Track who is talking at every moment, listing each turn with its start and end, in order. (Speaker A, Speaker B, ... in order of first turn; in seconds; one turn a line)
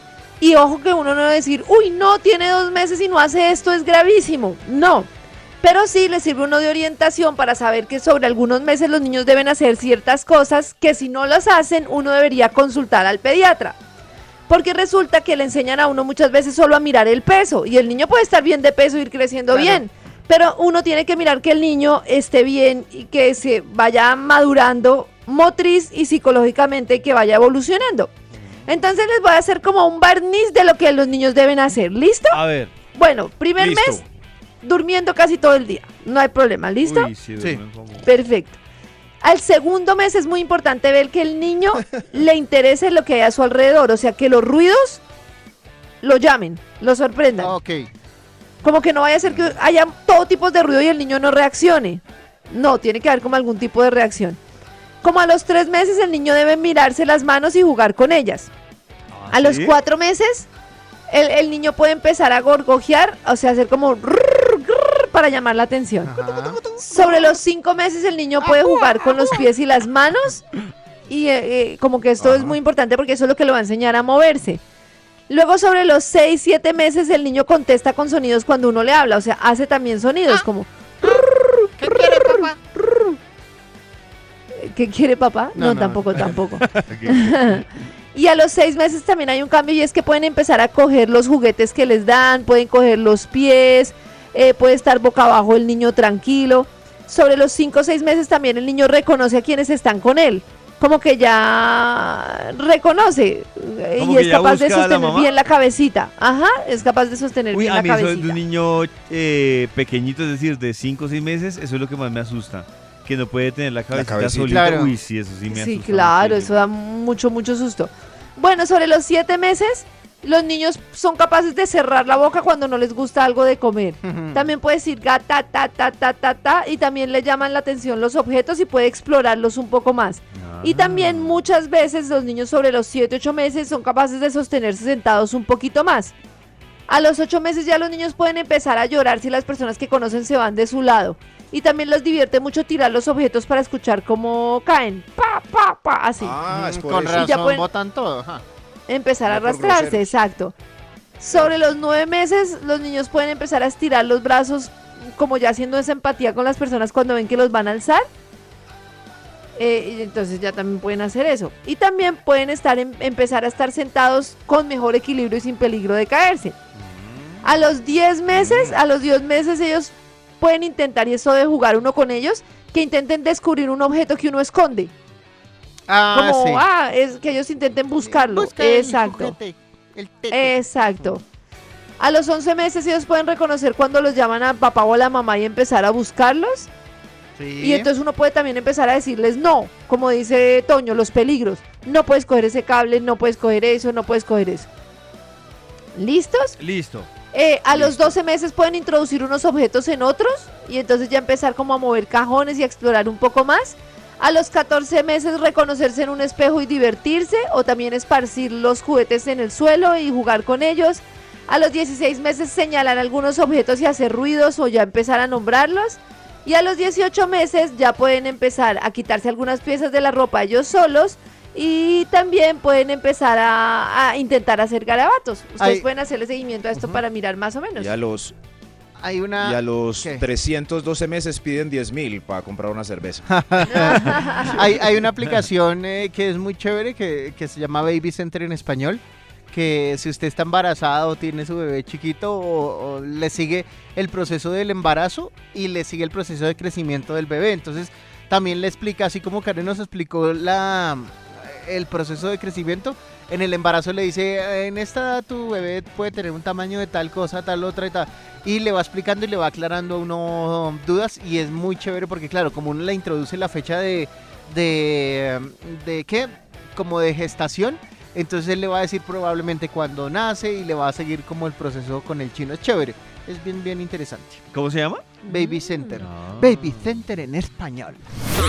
Speaker A: 0.4-5.1
Speaker A: 5.6-13.8
Speaker A: 14.5-28.1
Speaker B: 19.5-19.8
Speaker A: 28.6-32.4
Speaker C: 32.3-32.7
Speaker A: 32.9-34.0
Speaker D: 33.6-34.0
Speaker A: 34.6-37.1
Speaker C: 36.8-38.1
Speaker A: 38.0-38.6
Speaker A: 39.2-45.0
Speaker A: 46.0-47.5
Speaker B: 47.4-47.9
Speaker A: 48.6-54.4
Speaker A: 55.0-58.5
Speaker C: 59.1-59.7
Speaker A: 59.3-60.5
Speaker A: 61.1-66.2
Speaker B: 66.0-67.0
Speaker A: 66.8-70.4
Speaker A: 71.1-74.6
Speaker B: 72.2-72.6
Speaker A: 75.3-82.5
Speaker A: 84.5-108.4
Speaker B: 85.5-87.0
Speaker C: 86.8-87.4
Speaker C: 104.0-105.3
Speaker C: 107.5-116.6
Speaker D: 113.9-114.7
Speaker B: 114.5-115.0
Speaker A: 115.5-136.1
Speaker B: 124.0-124.5
Speaker C: 130.4-131.4
Speaker A: 136.9-146.4
Speaker D: 146.2-147.3
Speaker B: 146.5-148.4
Speaker A: 147.2-147.7
Speaker A: 148.9-150.5
Speaker D: 149.3-150.1
Speaker A: 151.2-158.1
Speaker A: 159.6-166.6
Speaker A: 167.4-174.9
Speaker D: 168.4-168.7
Speaker B: 175.9-176.6
Speaker A: 176.1-179.3
Speaker B: 178.0-180.6
Speaker A: 180.3-181.2
Speaker A: 182.0-186.7
Speaker B: 187.4-187.9
Speaker A: 187.6-194.7
Speaker A: 195.9-196.6
Speaker C: 196.6-197.1
Speaker A: 197.3-227.9
Speaker B: 225.6-225.9
Speaker B: 226.7-227.0
Speaker D: 227.8-228.3
Speaker B: 229.0-230.2
Speaker D: 229.4-234.2
Speaker B: 233.3-274.4
Speaker A: 233.7-234.6
Speaker C: 274.5-275.1
Speaker A: 275.2-276.0
Speaker B: 275.2-278.0
Speaker C: 276.0-276.7